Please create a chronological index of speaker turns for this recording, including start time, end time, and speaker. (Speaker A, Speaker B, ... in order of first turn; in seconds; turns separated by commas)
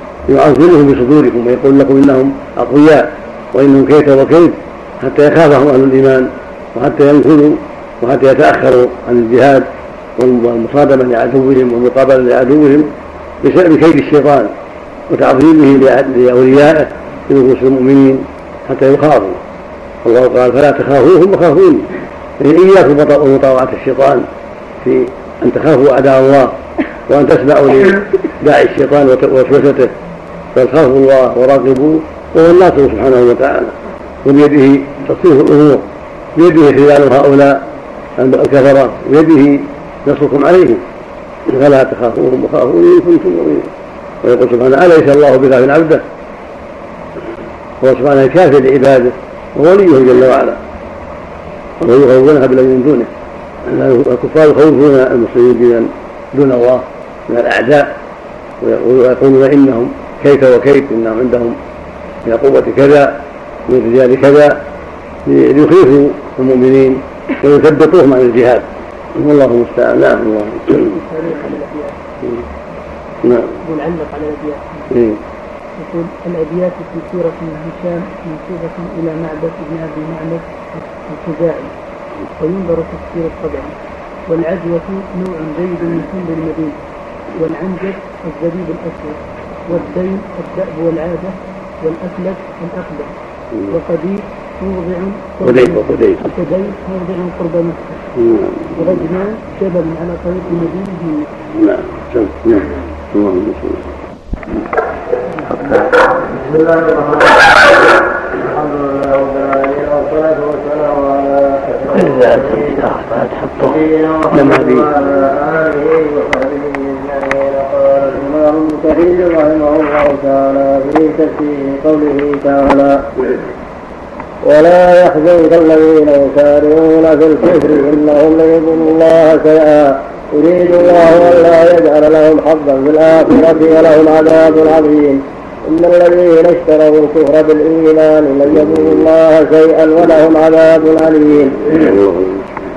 Speaker A: 0.3-12.9, Speaker A: 13.4-14.5, Speaker A: 15.1-19.4, Speaker A: 20.0-21.9, Speaker A: 22.4-24.3, Speaker A: 24.8-26.6, Speaker A: 27.1-29.9, Speaker A: 30.5-37.6, Speaker A: 38.2-40.8, Speaker A: 41.5-43.7, Speaker A: 44.2-46.0, Speaker A: 47.8-50.6, Speaker A: 51.8-53.1, Speaker A: 53.6-57.9, Speaker A: 58.6-61.6, Speaker A: 62.2-64.6, Speaker A: 65.2-71.0, Speaker B: 70.8-71.9, Speaker A: 73.2-73.5, Speaker B: 73.6-74.9, Speaker A: 74.9-75.2, Speaker B: 75.8-81.7, Speaker B: 82.4-83.7, Speaker B: 84.3-86.8, Speaker B: 87.3-93.1, Speaker B: 93.7-98.0, Speaker A: 95.4-96.3, Speaker A: 98.2-98.9, Speaker B: 98.7-101.3, Speaker A: 101.5-103.9, Speaker A: 105.5-105.8, Speaker C: 106.2-112.8, Speaker A: 111.9-113.8, Speaker C: 113.6-123.1, Speaker A: 114.3-114.9, Speaker C: 124.4-141.6, Speaker A: 141.7-142.5